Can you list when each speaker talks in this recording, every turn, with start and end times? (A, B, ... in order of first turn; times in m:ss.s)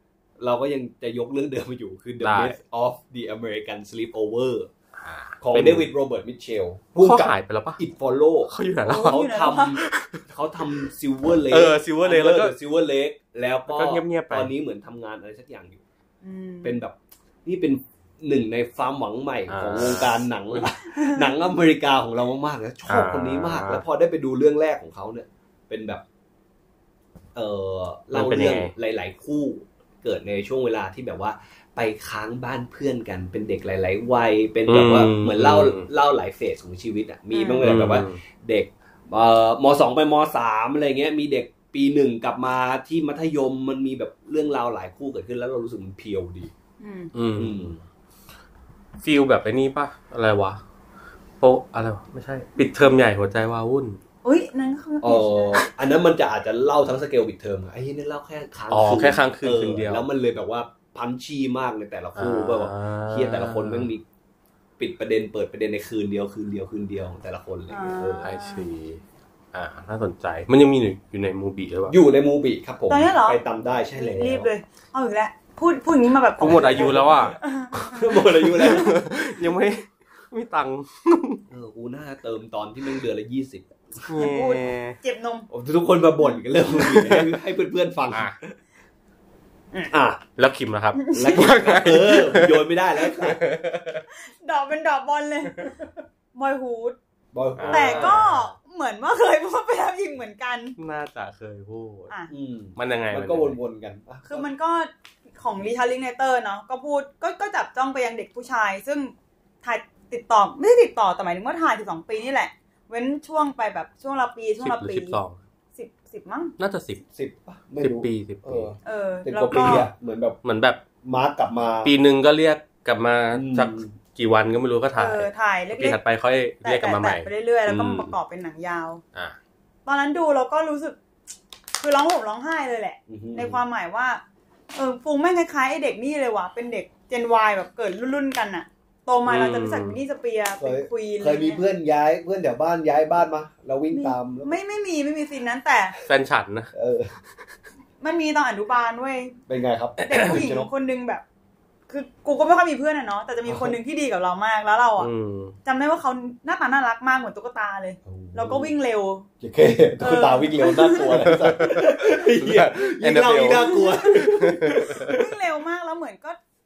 0:00.4-0:04.7 A
0:02.2-0:02.6 B
0:05.0-0:05.9 B
0:05.4-0:15.8 A
0:07.0-0:07.8 B
0:08.5-0:10.2 B
0:08.8-0:09.8 C
0:11.5-0:12.5 B
0:13.7-0:14.5 B
0:16.2-0:16.8 C
0:16.6-0:26.0 A
0:19.5-0:20.6 B
0:20.9-0:21.2 C
0:22.9-0:23.8 B
0:27.4-0:46.5 A
0:28.1-0:28.7 B
0:34.7-0:35.9 B
0:37.3-0:37.7 C
0:37.6-0:38.2 B
0:46.8-0:47.1 C
0:47.1-0:47.7 B
0:47.4-0:47.8 A
0:49.0-0:50.6 B
0:51.4-0:54.0 B
0:54.2-0:55.6 C
0:55.0-1:04.0 A
0:58.7-1:00.0 B
1:02.2-1:03.9 B
1:04.8-1:08.3 A
1:07.7-1:08.6 C
1:08.2-1:09.0 B
1:09.5-1:12.0 B
1:11.9-1:14.5 A
1:12.9-1:18.9 C
1:16.4-1:19.0 A
1:16.4-1:17.4 B
1:18.4-1:21.4 B
1:21.5-1:24.1 A
1:24.0-1:25.0 B
1:24.1-1:25.5 C
1:25.5-1:28.6 A
1:26.8-1:27.3 B
1:29.9-1:30.2 A
1:30.4-1:34.0 B
1:31.0-1:31.4 C
1:31.2-1:33.4 A
1:34.1-1:35.8 C
1:36.4-1:37.0 C
1:37.3-1:38.5 A
1:37.6-1:38.3 B
1:37.7-1:40.8 C
1:40.8-1:42.1 B
1:42.3-1:44.5 A
1:42.8-1:43.6 B
1:44.3-1:55.2 C
1:54.6-1:55.4 B
1:55.8-1:56.5 C
1:56.6-1:57.0 B
1:57.1-2:00.4 A
1:57.8-1:58.7 B
1:58.8-1:59.9 C
2:00.4-2:00.8 B
2:01.0-2:01.9 A
2:01.8-2:08.1 B
2:03.3-2:03.9 A
2:05.0-2:06.0 C
2:06.6-2:09.0 C
2:09.9-2:11.0 C
2:11.8-2:14.2 C
2:13.1-2:13.6 A
2:14.8-2:21.7 C
2:19.3-2:20.0 B
2:20.6-2:24.5 A
2:23.9-2:26.0 C
2:26.1-2:26.7 B
2:26.7-2:27.1 A
2:28.0-2:29.4 C
2:29.5-2:30.7 A
2:30.0-2:31.2 C
2:31.9-2:35.1 C
2:33.5-2:33.8 A
2:35.0-2:35.6 B
2:35.6-2:39.3 C
2:38.1-2:38.7 A
2:39.4-2:45.2 A
2:40.0-2:41.3 C
2:41.2-2:45.2 B
2:43.6-2:46.4 C